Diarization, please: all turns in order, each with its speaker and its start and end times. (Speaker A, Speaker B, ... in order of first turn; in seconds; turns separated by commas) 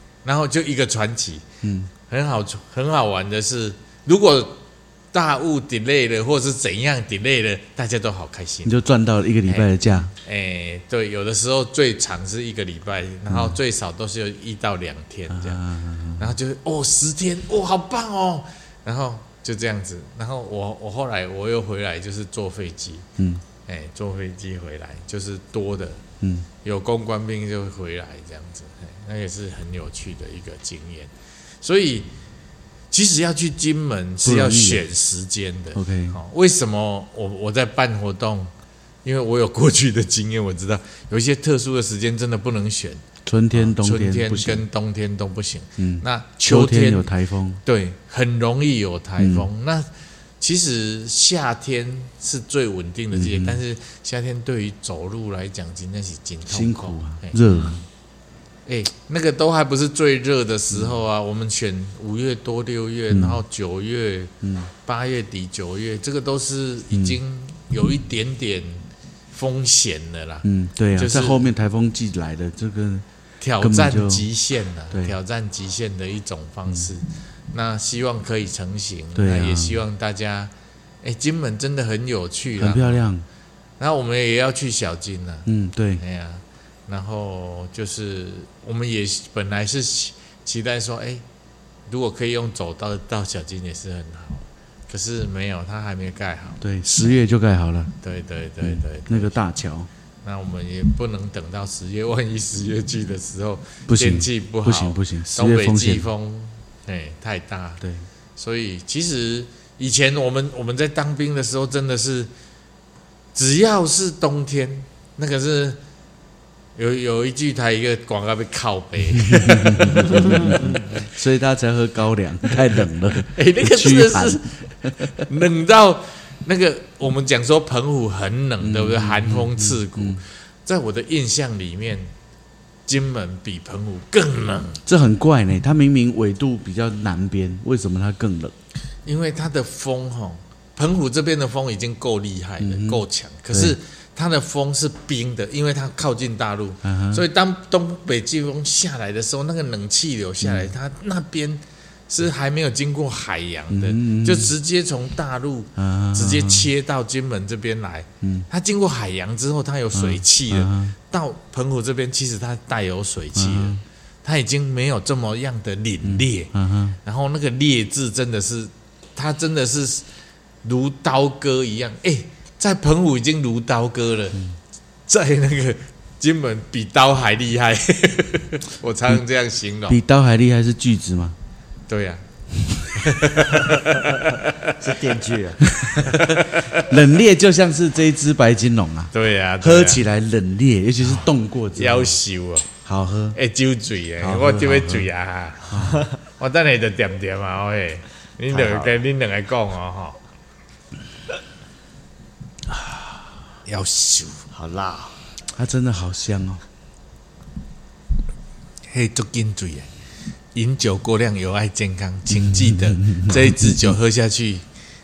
Speaker A: 0.2-1.4, Speaker B: 1.6-1.9, Speaker A: 2.0-8.7, Speaker B: 8.6-10.1, Speaker A: 9.4-15.6, Speaker B: 13.3-13.6, Speaker B: 15.3-16.3, Speaker A: 16.2-23.1, Speaker B: 23.2-23.4, Speaker A: 23.6-26.0, Speaker B: 26.2-26.5, Speaker A: 26.6-31.1, Speaker A: 31.6-32.1, Speaker A: 32.9-38.5, Speaker B: 34.2-34.8, Speaker B: 35.7-36.2, Speaker A: 39.0-47.1, Speaker B: 43.2-44.6, Speaker B: 45.8-47.6, Speaker A: 47.6-49.9, Speaker B: 49.2-49.5, Speaker A: 50.4-57.8, Speaker B: 53.1-53.6, Speaker B: 56.5-57.8, Speaker A: 58.6-64.3, Speaker B: 63.1-63.4, Speaker B: 64.4-64.7, Speaker A: 64.8-71.5, Speaker B: 66.9-67.2, Speaker B: 70.4-73.0, Speaker A: 73.4-80.5, Speaker B: 73.6-74.2, Speaker B: 74.9-75.2, Speaker B: 79.2-79.8, Speaker A: 81.0-83.0, Speaker B: 82.6-83.2, Speaker A: 83.8-85.5, Speaker B: 85.5-86.0, Speaker A: 86.0-91.2, Speaker A: 91.9-97.1, Speaker B: 96.6-97.9, Speaker A: 98.0-99.4, Speaker B: 98.6-99.9, Speaker A: 100.2-107.8, Speaker B: 103.9-106.0, Speaker A: 108.4-112.3, Speaker A: 113.3-115.8, Speaker A: 116.8-121.0, Speaker B: 119.2-125.3, Speaker A: 122.6-132.1, Speaker B: 128.6-130.2, Speaker A: 132.8-134.8, Speaker B: 134.8-138.5, Speaker A: 139.1-170.1, Speaker B: 142.6-143.8, Speaker B: 146.8-147.2, Speaker B: 150.4-150.7, Speaker B: 153.7-154.5, Speaker B: 155.8-156.7, Speaker B: 158.2-158.5, Speaker B: 159.9-160.9, Speaker B: 163.3-163.8, Speaker B: 166.0-167.0, Speaker A: 170.6-174.4, Speaker A: 175.1-180.0, Speaker B: 179.9-181.3, Speaker A: 181.9-182.2, Speaker B: 182.6-183.2, Speaker A: 183.0-184.8, Speaker C: 184.8-185.6, Speaker B: 185.6-192.2, Speaker A: 186.0-186.9, Speaker A: 189.1-190.0, Speaker A: 191.0-192.7, Speaker B: 192.8-193.4, Speaker A: 193.3-200.2, Speaker B: 194.2-195.1, Speaker B: 195.7-196.1, Speaker C: 198.5-199.0, Speaker A: 202.7-204.4, Speaker C: 204.5-205.2, Speaker B: 205.5-206.6, Speaker A: 208.9-209.9, Speaker A: 210.5-214.6, Speaker B: 212.4-213.8